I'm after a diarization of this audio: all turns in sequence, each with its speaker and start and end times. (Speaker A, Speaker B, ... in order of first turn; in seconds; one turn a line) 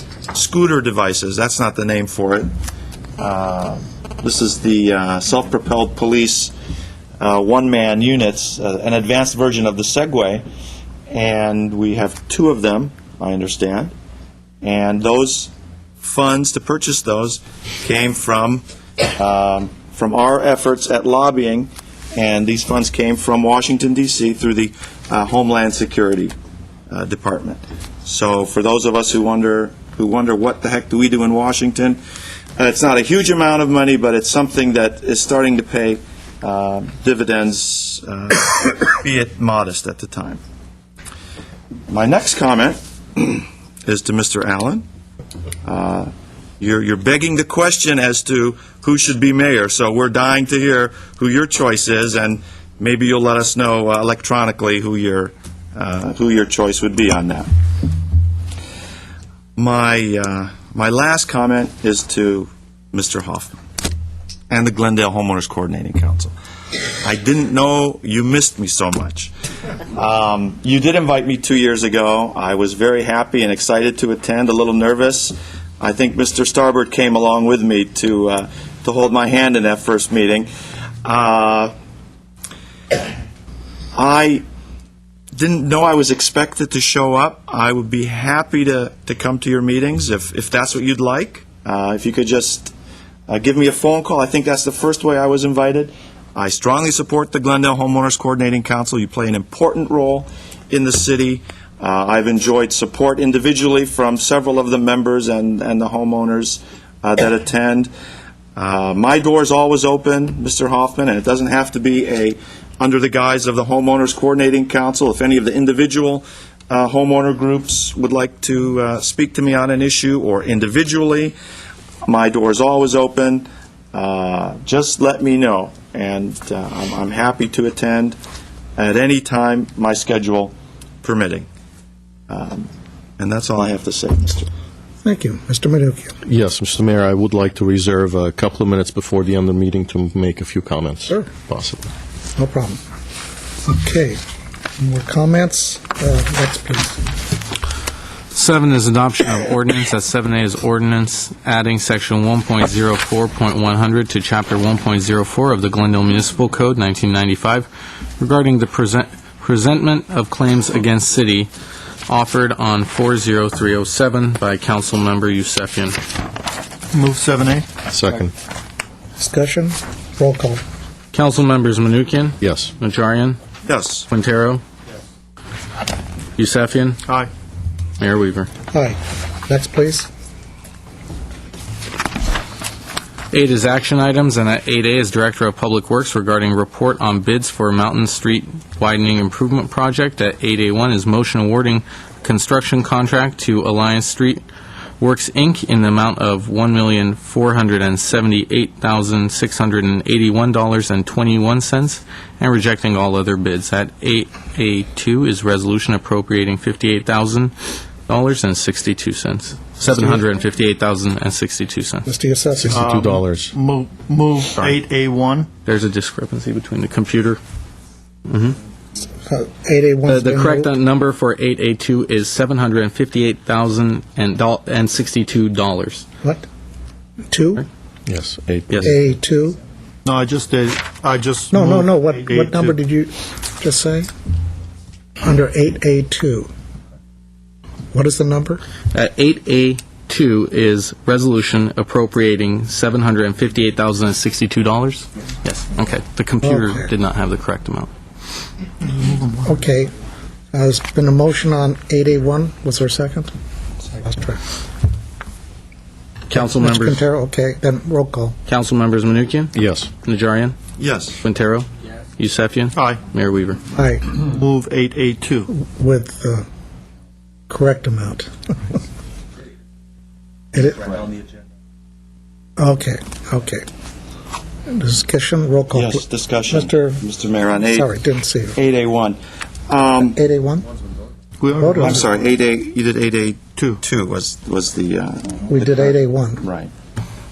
Speaker A: 0.3-2.5
Speaker A: 3.2-6.5
Speaker A: 7.2-10.4
Speaker A: 11.1-13.9
Speaker A: 14.6-26.3
Speaker A: 26.9-32.0
Speaker A: 32.6-40.4
Speaker A: 41.9-44.8
Speaker A: 45.6-57.5
Speaker A: 59.5-63.5
Speaker A: 64.5-66.3
Speaker A: 67.0-69.3
Speaker A: 69.9-80.5
Speaker A: 81.0-81.7
Speaker A: 83.9-84.4
Speaker A: 85.3-92.7
Speaker A: 93.3-107.9
Speaker A: 108.5-121.3
Speaker A: 122.0-128.2
Speaker A: 128.8-131.5
Speaker A: 132.3-134.5
Speaker B: 135.0-136.2
Speaker C: 136.2-141.9
Speaker B: 142.3-142.8
Speaker B: 143.7-144.2
Speaker B: 144.8-147.0
Speaker D: 148.3-161.5
Speaker D: 162.1-166.0
Speaker E: 166.9-167.7
Speaker C: 167.9-168.3
Speaker B: 169.2-170.6
Speaker D: 171.1-173.4
Speaker C: 172.4-172.7
Speaker A: 173.6-174.1
Speaker D: 174.1-174.6
Speaker D: 176.4-177.0
Speaker D: 178.0-178.5
Speaker B: 178.7-180.1
Speaker D: 183.3-194.4
Speaker D: 195.0-207.5
Speaker D: 208.1-212.1
Speaker B: 212.1-212.9
Speaker C: 212.7-213.5
Speaker E: 212.7-215.5
Speaker D: 215.7-217.4
Speaker D: 218.3-218.6
Speaker B: 219.2-220.7
Speaker D: 220.1-226.0
Speaker B: 227.3-227.7
Speaker C: 228.1-228.9
Speaker D: 228.7-228.9
Speaker B: 228.8-229.6
Speaker E: 230.0-232.8
Speaker B: 231.5-234.1
Speaker B: 235.2-236.5
Speaker B: 237.9-238.6
Speaker D: 238.9-247.9
Speaker B: 246.4-246.8
Speaker B: 249.2-249.9
Speaker B: 250.5-253.3
Speaker B: 254.0-254.4
Speaker D: 256.3-257.0
Speaker B: 256.3-258.4
Speaker D: 258.4-260.6
Speaker C: 259.5-259.9
Speaker A: 260.8-261.2
Speaker D: 261.2-263.6
Speaker E: 262.7-263.0
Speaker B: 263.7-264.1
Speaker E: 264.2-265.5
Speaker B: 265.5-266.4
Speaker B: 267.5-268.3
Speaker B: 270.5-271.0
Speaker B: 272.6-273.6
Speaker B: 274.7-277.0
Speaker A: 275.7-277.9
Speaker B: 277.7-278.6
Speaker A: 278.5-280.2
Speaker B: 280.1-280.7
Speaker E: 281.4-282.1
Speaker B: 281.6-282.0
Speaker A: 281.8-286.7
Speaker E: 283.6-283.8
Speaker B: 285.5-286.4